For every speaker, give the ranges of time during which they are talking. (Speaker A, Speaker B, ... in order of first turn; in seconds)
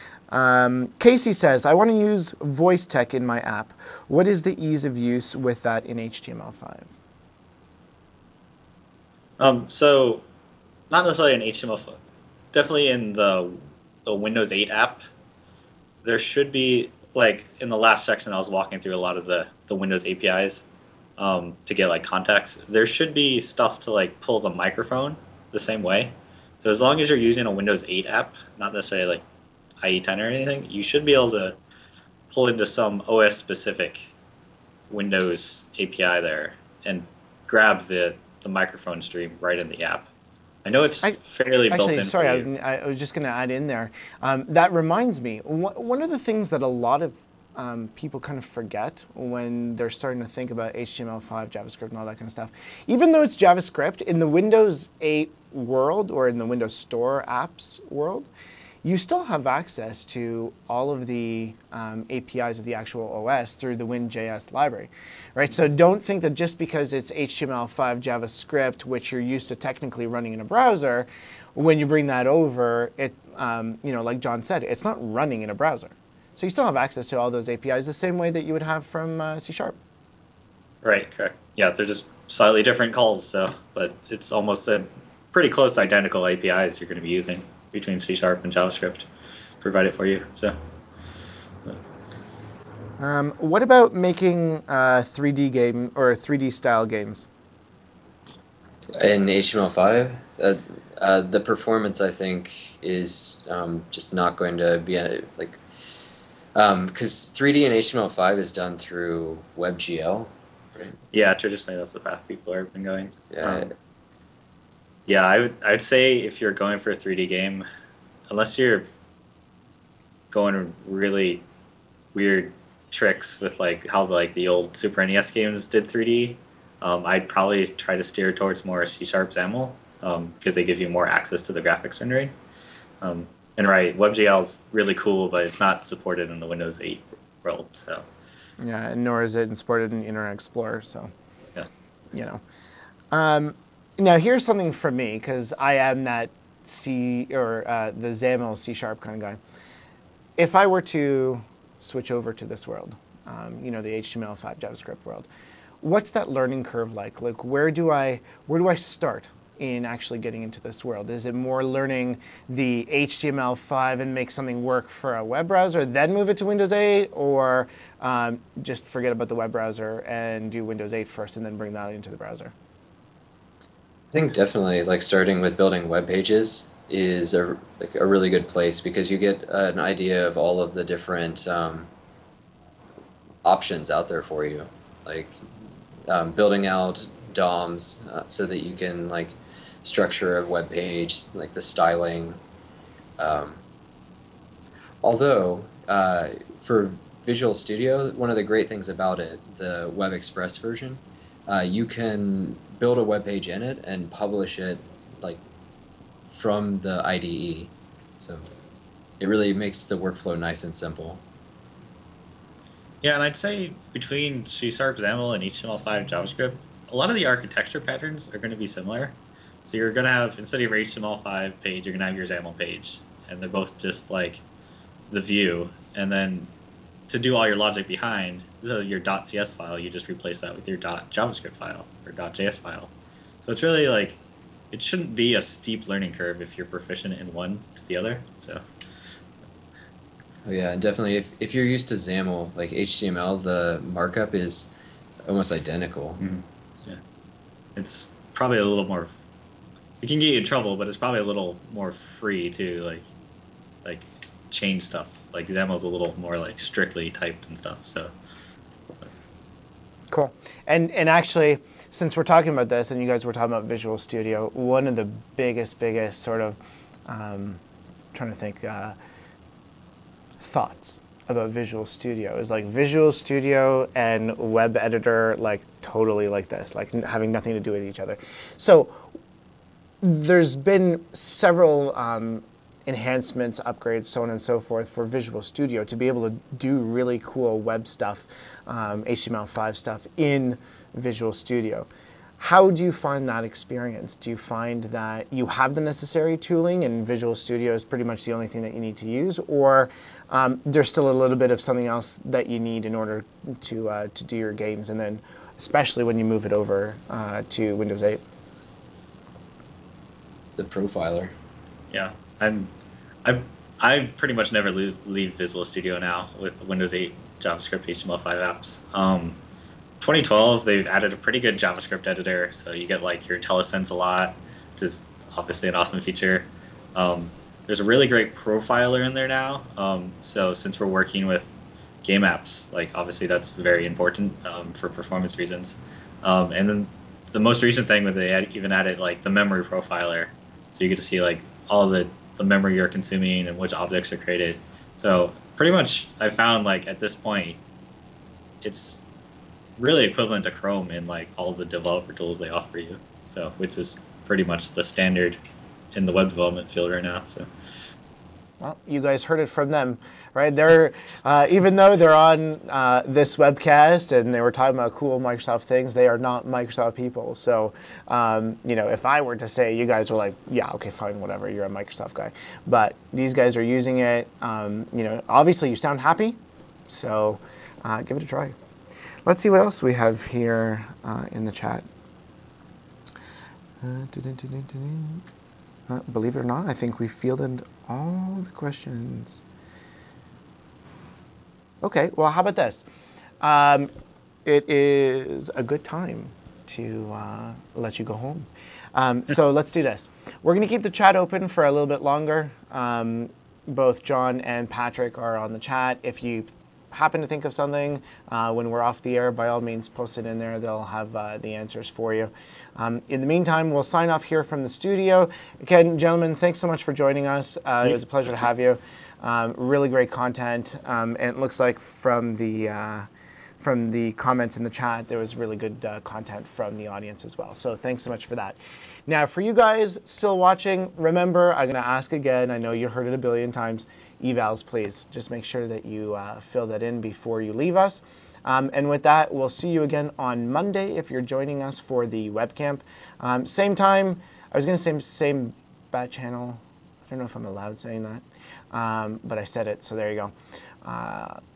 Speaker A: 0.3-6.9, 41.0-58.3, 58.8-79.8, 93.0-97.3, 138.6-141.1, 142.1-142.4, 143.1-149.4, 150.4-155.3, 155.8-172.5, 260.1-267.6, 268.1-269.0, 270.4-279.0, 280.0-291.9, 292.4-308.2, 358.6-376.4, 376.9-378.6, 379.3-381.9, 383.8-385.2, 385.9-389.4, 391.8-392.9, 393.4-393.9, 394.4-423.1, 423.6-450.3, 450.8-451.4
Speaker B: 9.4-10.2, 10.9-12.0, 12.5-15.0, 16.0-20.6, 21.2-29.2, 29.8-31.6, 32.3-34.1, 34.9-40.1, 40.6-42.5, 80.8-89.1, 89.6-90.6, 111.1-113.7, 115.1-117.7, 118.3-118.9, 120.3-121.4, 122.1-132.3, 133.0-138.1, 213.0-224.4, 225.1-226.5, 227.1-234.2, 234.7-238.6, 246.2-247.0, 247.8-249.2, 250.0-253.1, 253.8-258.1, 311.9-312.7, 313.2-319.4, 320.0-347.6, 348.6-349.0, 349.8-355.4, 355.9-357.5
Speaker C: 99.0-105.6, 106.6-111.0, 113.3-113.7, 174.1-181.9, 183.4-185.4, 186.1-192.4, 193.2-193.6, 195.0-205.4, 206.3-208.5, 209.2-211.2, 240.4-244.7, 245.2-246.2, 310.6-311.3